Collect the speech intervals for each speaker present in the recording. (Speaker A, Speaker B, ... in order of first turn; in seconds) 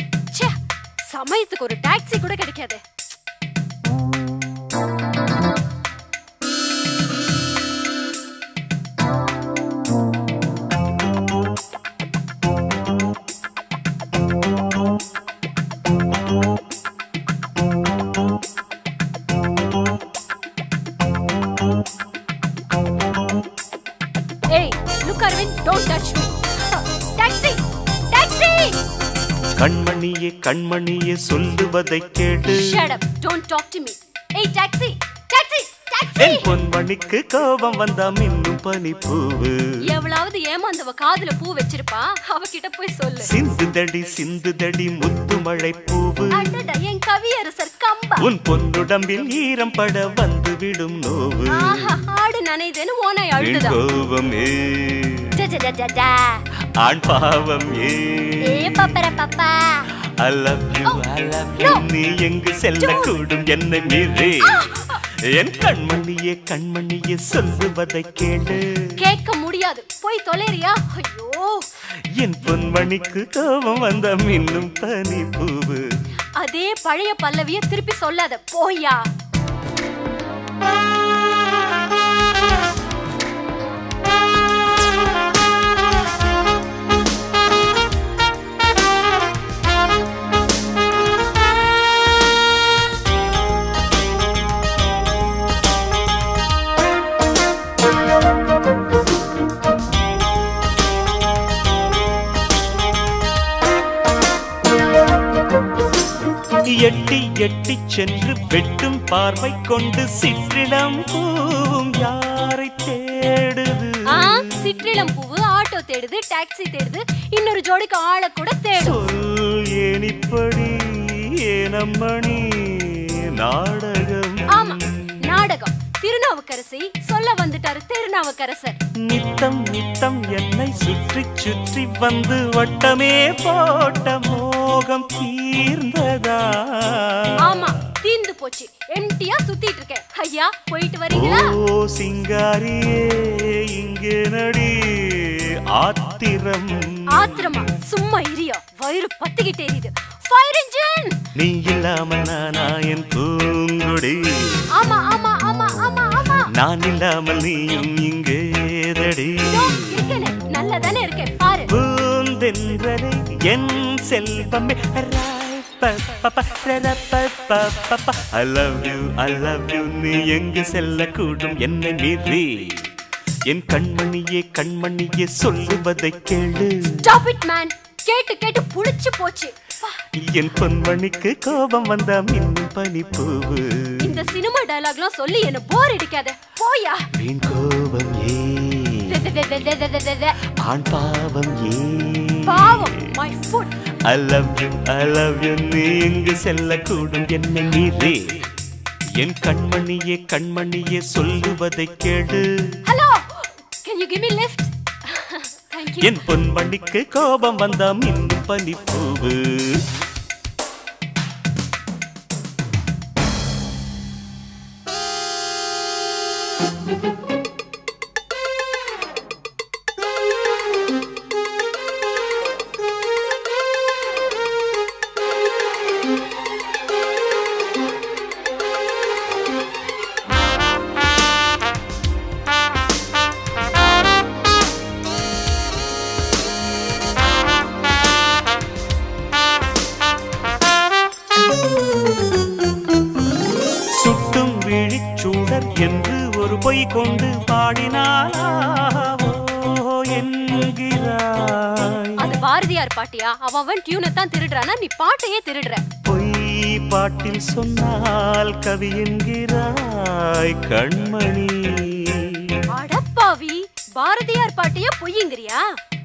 Speaker A: 0.3-2.8, 24.5-28.8, 32.5-36.5, 39.9-43.3, 46.3-48.3, 51.5-53.8, 55.3-56.4, 58.5-59.9, 61.6-61.9, 62.8-63.2, 64.4-65.0, 69.0-71.7, 76.4-79.0, 114.1-119.1, 124.5-128.8, 137.4-141.6, 147.1-151.2, 154.7-156.5, 159.4-161.7, 177.0-180.0, 184.0-187.1, 189.1-190.4, 192.4-193.8, 202.8-206.2, 252.2-255.8, 262.7-265.6
Speaker B: 29.5-32.7, 36.2-39.6, 43.2-46.6, 48.2-52.0, 53.4-55.4, 56.8-59.0, 60.2-68.9, 72.1-75.8, 106.7-114.5, 118.8-125.2, 129.1-137.7, 141.1-147.3, 151.3-154.7, 156.5-160.0, 161.7-172.9, 173.5-177.1, 180.2-184.3, 187.1-189.5, 190.4-192.9, 194.0-198.5, 199.2-202.8, 206.0-209.9, 244.0-252.2, 256.1-262.6